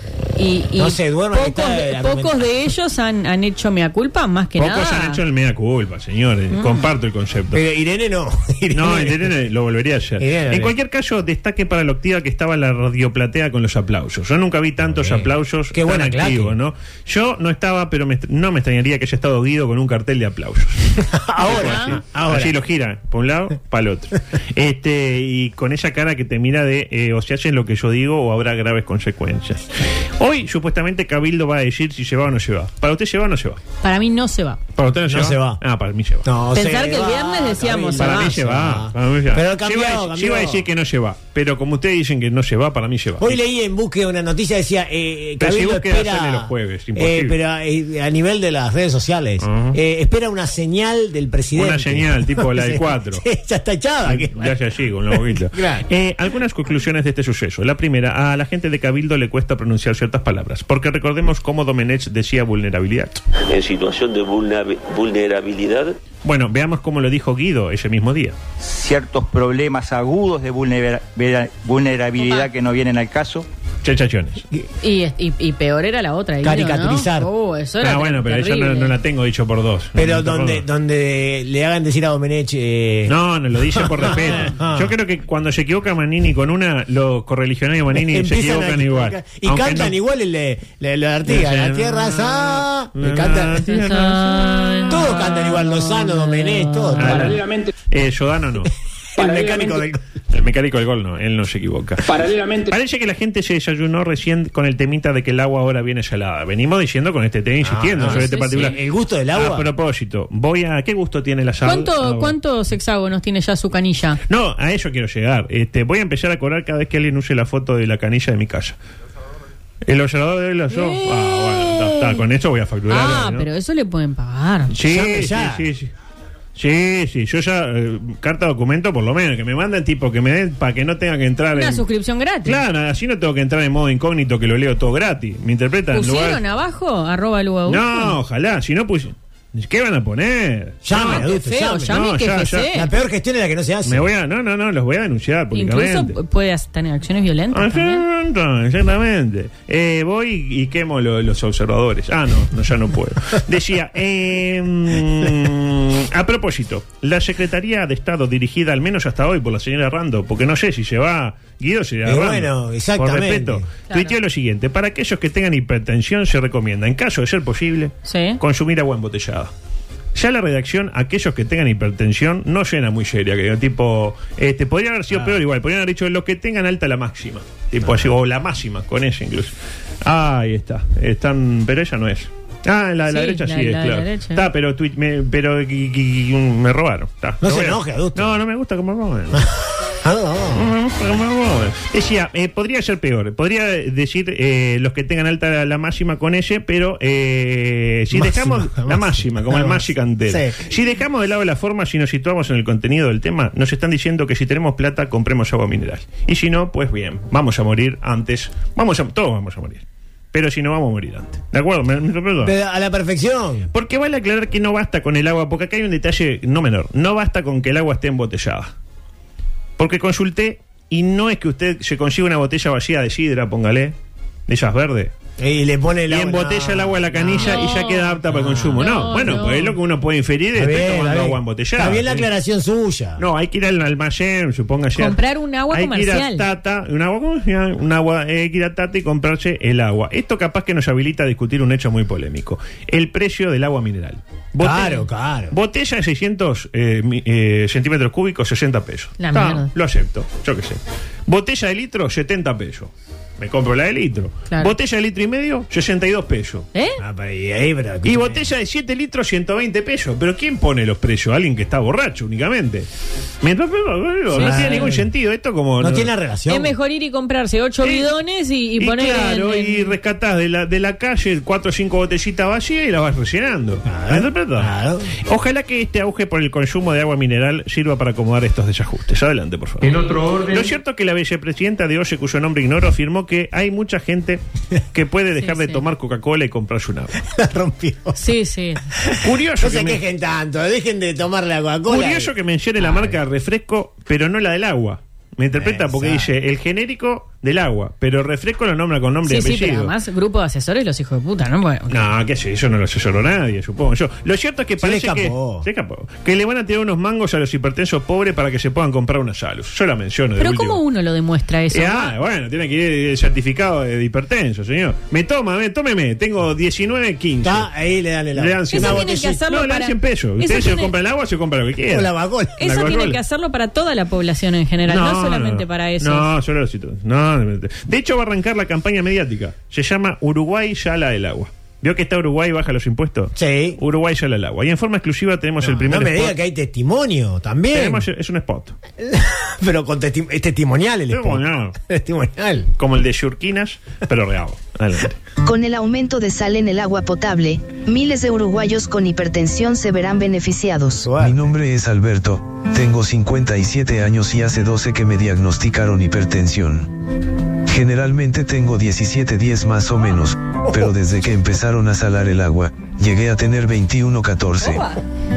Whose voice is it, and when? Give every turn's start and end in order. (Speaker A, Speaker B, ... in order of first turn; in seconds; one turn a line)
Speaker A: 0.3-5.2
Speaker B: 0.8-2.5
Speaker C: 4.6-7.6
Speaker A: 6.5-6.9
Speaker B: 7.5-9.3
Speaker C: 8.7-33.6
Speaker B: 10.2-10.7
Speaker B: 14.8-16.6
Speaker B: 21.0-22.5
Speaker A: 21.4-21.9
Speaker A: 33.8-34.6
Speaker C: 34.8-36.3
Speaker B: 35.1-35.6
Speaker B: 36.2-40.6
Speaker A: 36.5-38.4
Speaker C: 38.0-43.4
Speaker B: 43.2-54.6
Speaker C: 45.4-47.4
Speaker C: 49.4-49.8
Speaker C: 51.5-53.2
Speaker C: 54.0-63.2
Speaker B: 55.1-55.8
Speaker D: 63.5-66.0
Speaker C: 66.2-68.3
Speaker E: 68.6-73.5
Speaker A: 72.2-72.5
Speaker C: 73.8-74.4
Speaker A: 74.8-78.9
Speaker B: 76.4-77.3
Speaker C: 77.8-80.7
Speaker B: 80.0-83.1
Speaker C: 83.1-90.0
Speaker B: 83.7-84.9
Speaker B: 87.9-93.6
Speaker C: 91.2-95.0
Speaker A: 93.7-97.0
Speaker B: 94.9-97.3
Speaker C: 97.0-98.7
Speaker F: 97.0-97.7
Speaker B: 99.2-100.0
Speaker F: 99.2-99.8
Speaker C: 100.3-102.1
Speaker F: 102.0-102.7
Speaker C: 102.7-108.8
Speaker B: 107.6-109.7
Speaker A: 108.0-108.8
Speaker C: 109.3-112.3
Speaker A: 111.6-114.2
Speaker C: 114.3-118.8
Speaker C: 119.8-123.5
Speaker A: 120.7-122.2
Speaker A: 122.9-124.7
Speaker C: 124.7-125.9
Speaker B: 124.8-125.7
Speaker C: 126.5-131.8
Speaker A: 131.5-132.6
Speaker C: 132.4-136.4
Speaker A: 135.9-138.2
Speaker C: 137.7-141.3
Speaker B: 140.8-142.0
Speaker A: 140.9-142.9
Speaker C: 141.8-142.8
Speaker B: 142.7-144.1
Speaker C: 143.8-146.2
Speaker A: 145.5-148.0
Speaker C: 147.5-169.5
Speaker B: 162.0-163.7
Speaker A: 168.1-168.4
Speaker C: 170.1-179.5
Speaker C: 180.0-189.5
Speaker A: 183.1-184.4
Speaker B: 187.4-188.3
Speaker B: 190.0-190.7
Speaker C: 190.5-212.5
Speaker B: 198.1-200.7
Speaker B: 212.4-213.7
Speaker C: 213.7-218.7
Speaker C: 219.8-223.9
Speaker C: 224.5-225.1
Speaker B: 225.4-227.7
Speaker C: 226.1-232.2
Speaker A: 227.4-228.2
Speaker B: 228.3-228.8
Speaker A: 228.7-229.8
Speaker B: 230.5-233.2
Speaker C: 233.2-256.7
Speaker A: 234.9-236.4
Speaker B: 244.6-245.6
Speaker A: 249.2-249.7
Speaker A: 256.7-257.0
Speaker B: 257.0-258.4
Speaker C: 258.0-262.9
Speaker C: 263.4-266.1
Speaker A: 264.3-264.9
Speaker B: 264.3-265.1
Speaker B: 265.8-266.7
Speaker A: 266.5-269.9
Speaker C: 267.8-268.1
Speaker C: 268.8-284.4
Speaker B: 273.9-275.1
Speaker C: 284.9-287.2
Speaker A: 285.4-285.8
Speaker B: 287.2-288.2
Speaker A: 288.2-288.8
Speaker B: 288.9-293.1
Speaker C: 289.2-290.0
Speaker C: 291.9-299.9
Speaker B: 295.6-296.3
Speaker A: 299.2-302.0
Speaker C: 301.9-310.8
Speaker B: 304.8-305.6
Speaker A: 310.4-312.1
Speaker C: 311.7-317.7
Speaker B: 317.4-319.4
Speaker C: 318.3-323.2
Speaker A: 318.7-320.9
Speaker B: 321.9-322.6
Speaker A: 322.6-326.3
Speaker C: 324.9-336.4
Speaker B: 333.4-333.8
Speaker B: 335.6-338.0
Speaker C: 337.7-338.8
Speaker B: 339.0-342.7
Speaker C: 341.1-341.8
Speaker C: 342.8-345.2
Speaker G: 345.4-351.1
Speaker B: 351.0-351.5
Speaker H: 351.2-356.9
Speaker H: 357.6-364.9